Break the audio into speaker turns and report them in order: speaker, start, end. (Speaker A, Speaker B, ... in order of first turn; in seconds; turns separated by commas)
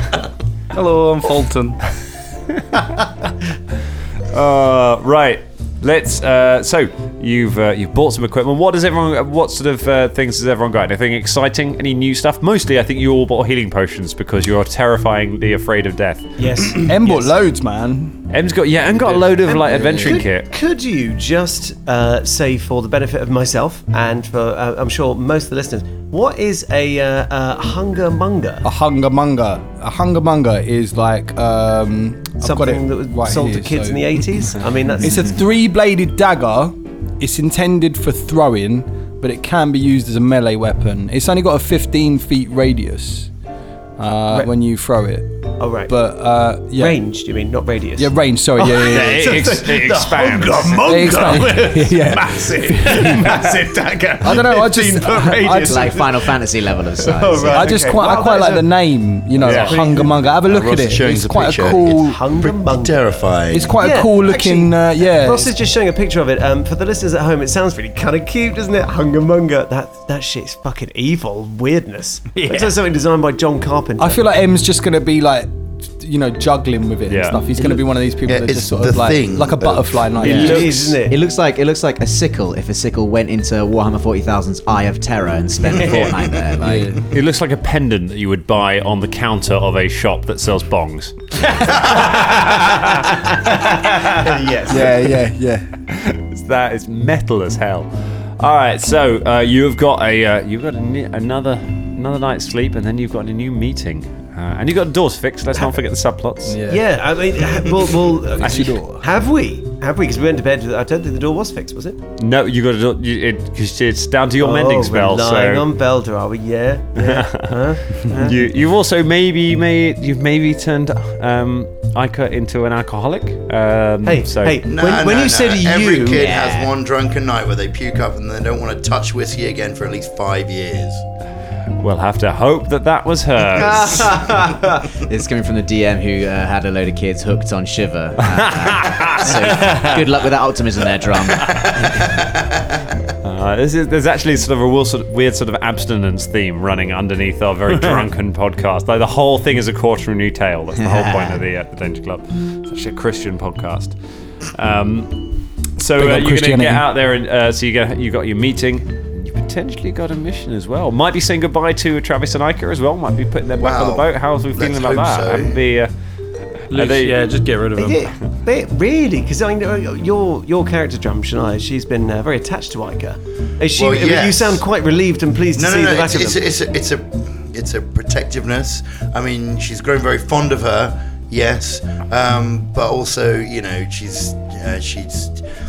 Speaker A: 0.7-1.8, Speaker B: 4.3-16.3, Speaker C: 16.4-17.3, Speaker D: 16.7-18.2, Speaker B: 18.3-20.5, Speaker C: 19.4-28.6, Speaker D: 19.6-20.2, Speaker D: 28.6-34.4, Speaker C: 32.4-35.4, Speaker E: 35.0-35.3, Speaker D: 35.0-43.3, Speaker D: 44.0-47.0, Speaker C: 45.6-46.0, Speaker C: 46.7-56.3, Speaker D: 48.0-49.4, Speaker B: 48.9-50.8, Speaker D: 50.8-53.5, Speaker D: 54.2-56.0, Speaker E: 55.6-57.8, Speaker C: 57.0-58.8, Speaker D: 57.4-62.2, Speaker B: 59.4-59.8, Speaker C: 59.4-60.3, Speaker F: 59.5-63.8, Speaker C: 61.7-74.2, Speaker D: 63.5-65.5, Speaker A: 72.3-72.8, Speaker D: 74.0-80.8, Speaker B: 77.1-77.4, Speaker F: 77.6-81.0, Speaker B: 80.2-80.5, Speaker C: 80.2-81.2, Speaker E: 81.1-87.0, Speaker D: 86.6-87.0, Speaker B: 87.1-91.2, Speaker C: 91.7-95.2, Speaker D: 94.7-95.6, Speaker B: 95.9-106.6, Speaker D: 106.5-106.8, Speaker C: 106.6-112.0, Speaker D: 108.4-109.0, Speaker B: 112.2-115.6, Speaker C: 114.4-118.4, Speaker B: 117.0-124.6, Speaker C: 124.0-126.2, Speaker F: 124.7-131.0, Speaker E: 126.1-126.7, Speaker B: 131.8-134.2, Speaker E: 133.5-142.1, Speaker B: 138.3-139.6, Speaker A: 139.6-139.9, Speaker B: 143.2-153.9, Speaker E: 150.8-151.4, Speaker B: 154.5-165.9, Speaker D: 155.9-156.9, Speaker F: 163.6-165.6, Speaker B: 166.7-167.2, Speaker A: 166.7-168.0, Speaker C: 167.8-176.4, Speaker F: 173.8-174.6, Speaker F: 175.6-185.5